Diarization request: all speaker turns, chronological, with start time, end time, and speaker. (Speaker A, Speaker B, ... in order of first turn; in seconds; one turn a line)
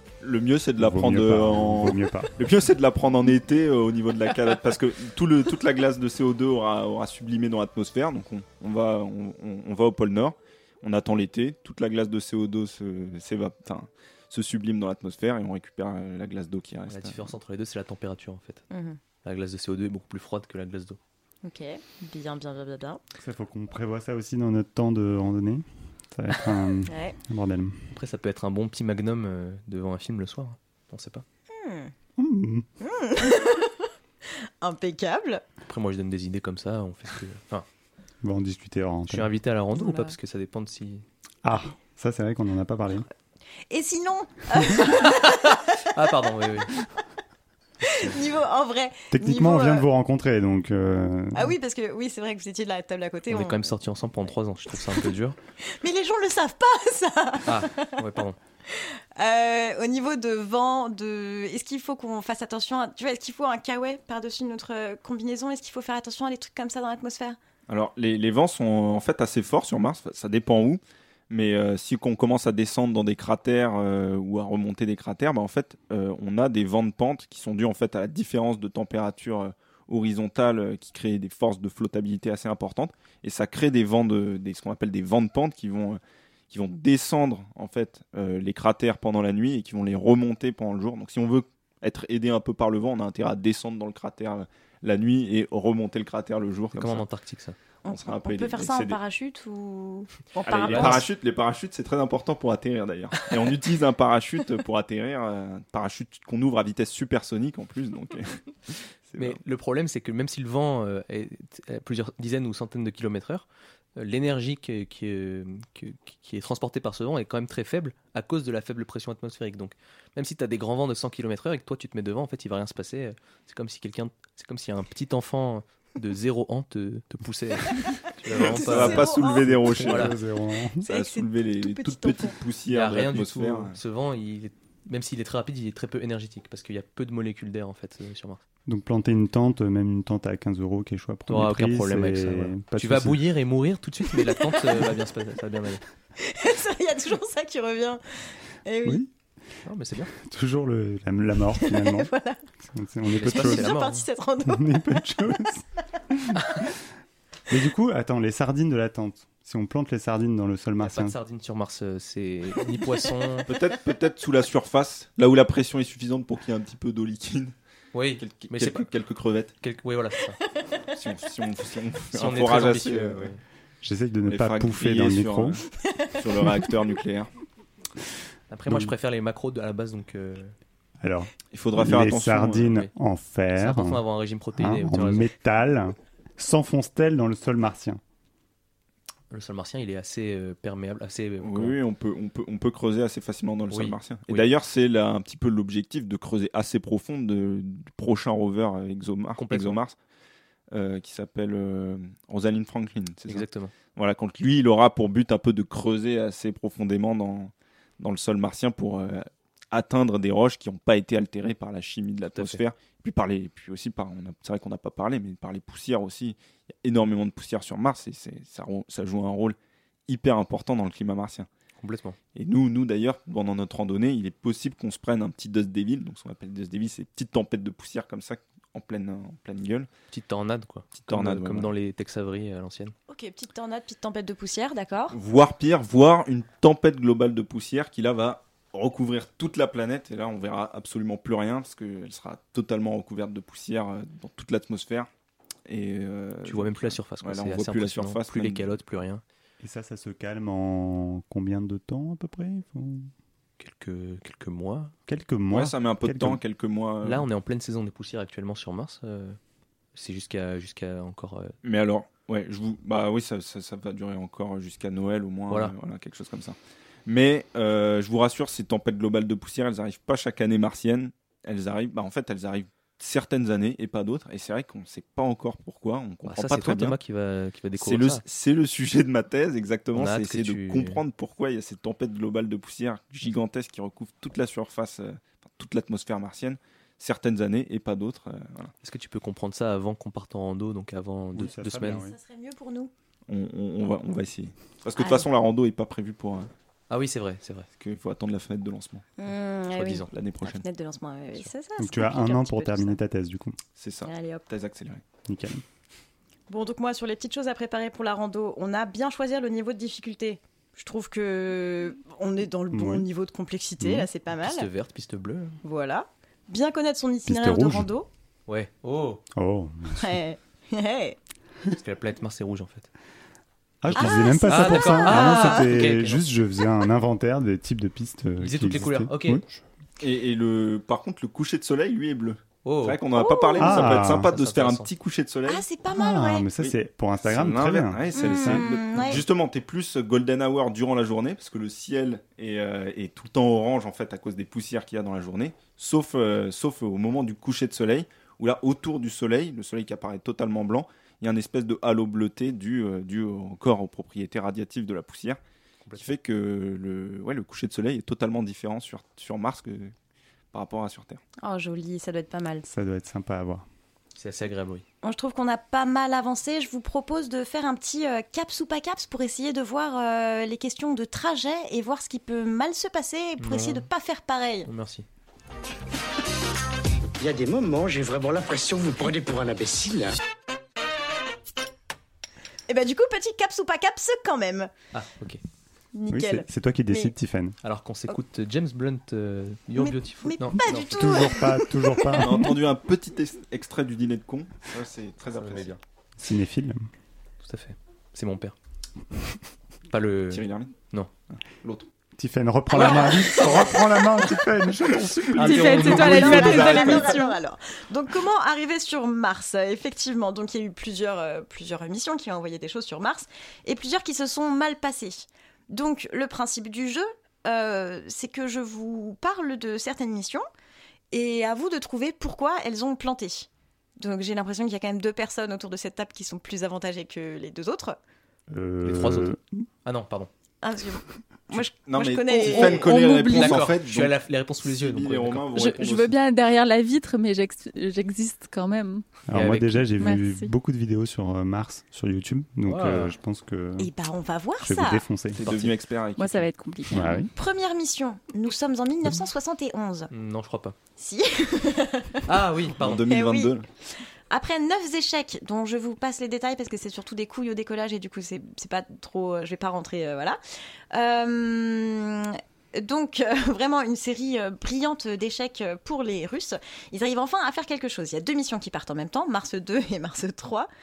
Speaker A: 0.2-17.3
Speaker B: 0.8-2.3
Speaker C: 16.9-18.6
Speaker D: 18.7-19.0
Speaker C: 19.2-21.0
Speaker D: 21.4-23.0
Speaker B: 23.2-27.9
Speaker D: 26.9-27.2
Speaker C: 27.9-31.2
Speaker D: 31.5-31.9
Speaker B: 32.2-32.7
Speaker D: 32.8-35.4
Speaker C: 35.7-37.6
Speaker B: 38.2-39.3
Speaker C: 39.1-41.0
Speaker D: 39.8-40.1
Speaker B: 41.4-43.1
Speaker D: 43.7-45.9
Speaker C: 44.9-46.7
Speaker D: 47.8-49.9
Speaker B: 49.1-51.5
Speaker D: 51.3-53.7
Speaker C: 53.3-55.4
Speaker D: 55.6-58.0
Speaker C: 57.5-58.4
Speaker D: 58.7-67.4
Speaker A: 67.7-97.0
Speaker C: 96.7-97.6
Speaker D: 97.8-101.1
Speaker A: 97.9-99.0
Speaker A: 100.5-109.4
Speaker C: 100.6-101.0
Speaker C: 109.2-129.2
Speaker A: 128.3-130.2
Speaker D: 128.5-129.8
Speaker B: 129.2-130.9
Speaker C: 129.8-130.2
Speaker D: 130.8-132.4
Speaker A: 130.8-133.8
Speaker C: 132.7-138.4
Speaker B: 138.7-143.2
Speaker C: 141.3-145.8
Speaker D: 146.2-149.1
Speaker C: 149.7-150.1
Speaker B: 150.2-152.1
Speaker D: 151.6-152.4
Speaker B: 152.6-153.7
Speaker C: 153.1-154.1
Speaker D: 153.2-155.0
Speaker B: 154.5-156.5
Speaker B: 157.5-161.2
Speaker C: 160.8-163.5
Speaker A: 163.5-167.5
Speaker C: 167.9-168.9
Speaker A: 168.2-169.5
Speaker C: 169.6-170.4
Speaker A: 170.9-173.3
Speaker C: 172.1-173.4
Speaker B: 173.8-175.6
Speaker A: 174.3-177.3
Speaker C: 178.5-180.5
Speaker B: 178.7-178.9
Speaker B: 181.0-184.0
Speaker A: 181.5-182.8
Speaker C: 183.6-185.3
Speaker B: 184.6-188.0
Speaker C: 189.3-191.8
Speaker A: 191.4-200.0
Speaker C: 193.7-194.5
Speaker C: 199.4-199.8
Speaker A: 200.7-219.6
Speaker C: 203.3-203.7
Speaker C: 212.3-212.6
Speaker A: 220.1-221.5
Speaker C: 221.8-222.2
Speaker A: 222.3-229.9
Speaker C: 230.1-232.9
Speaker A: 231.0-231.7
Speaker D: 233.1-235.2
Speaker A: 235.1-245.1
Speaker A: 245.7-248.7
Speaker C: 246.4-249.2
Speaker B: 249.6-253.1
Speaker C: 253.6-254.9
Speaker B: 255.1-256.4
Speaker A: 255.5-257.3
Speaker C: 257.0-259.4
Speaker C: 259.9-261.5
Speaker A: 261.6-277.0
Speaker C: 276.2-278.2
Speaker A: 277.8-288.7
Speaker C: 279.9-281.0
Speaker C: 288.8-292.0
Speaker B: 291.3-292.2
Speaker D: 291.9-292.9
Speaker A: 293.3-296.5
Speaker D: 295.0-295.2
Speaker C: 296.9-297.7
Speaker A: 297.8-299.1
Speaker D: 299.2-303.0
Speaker C: 299.8-300.1
Speaker A: 300.1-300.6
Speaker B: 301.8-303.6
Speaker A: 303.8-305.0
Speaker D: 304.0-304.4
Speaker B: 305.3-305.6
Speaker D: 306.5-314.7
Speaker B: 312.7-313.1
Speaker B: 313.8-314.1
Speaker C: 314.4-315.6
Speaker D: 315.6-318.1
Speaker B: 317.3-317.9
Speaker C: 318.5-319.2
Speaker B: 319.4-320.2
Speaker D: 319.9-321.2
Speaker C: 321.7-322.9
Speaker B: 323.8-329.6
Speaker D: 323.9-325.7
Speaker C: 324.0-326.3
Speaker C: 328.4-329.4
Speaker A: 330.0-335.7
Speaker C: 332.6-333.0
Speaker D: 333.1-333.9
Speaker B: 333.6-334.3
Speaker C: 334.0-334.9
Speaker D: 335.5-336.5
Speaker B: 335.9-338.9
Speaker A: 336.6-355.4
Speaker D: 338.1-339.2
Speaker C: 355.9-356.1
Speaker A: 356.0-359.9
Speaker A: 360.5-361.2
Speaker D: 361.4-362.7
Speaker B: 362.7-363.6
Speaker C: 364.2-364.8
Speaker D: 365.0-374.7
Speaker C: 373.4-373.9
Speaker C: 374.7-375.1
Speaker E: 377.2-380.2
Speaker D: 382.7-384.7
Speaker C: 384.9-385.4
Speaker D: 385.9-387.1
Speaker B: 386.1-387.6
Speaker C: 387.6-391.2
Speaker D: 389.8-392.2
Speaker B: 390.6-392.6
Speaker A: 392.2-395.8
Speaker C: 395.4-395.8
Speaker B: 396.2-396.9
Speaker C: 397.4-398.6
Speaker C: 399.9-401.1
Speaker A: 400.3-401.9
Speaker B: 402.2-406.1
Speaker C: 402.8-403.3
Speaker A: 405.3-407.2
Speaker F: 405.4-407.4
Speaker C: 405.6-406.1
Speaker D: 405.9-420.4
Speaker D: 421.1-428.0
Speaker B: 428.5-429.6
Speaker C: 428.9-430.3
Speaker D: 430.6-433.0
Speaker A: 431.5-436.2
Speaker F: 432.5-433.6
Speaker C: 433.2-435.7
Speaker F: 435.6-439.1
Speaker B: 439.3-443.9
Speaker C: 439.3-439.9
Speaker F: 440.0-440.5
Speaker C: 442.7-443.1
Speaker D: 443.8-445.0
Speaker B: 444.6-445.4
Speaker A: 445.3-446.5
Speaker C: 445.4-445.7
Speaker F: 446.2-447.3
Speaker B: 446.9-447.3
Speaker D: 447.4-450.1
Speaker C: 450.1-450.8
Speaker D: 451.0-452.3
Speaker C: 452.3-453.0
Speaker A: 452.8-453.7
Speaker D: 453.1-460.4
Speaker D: 460.9-470.7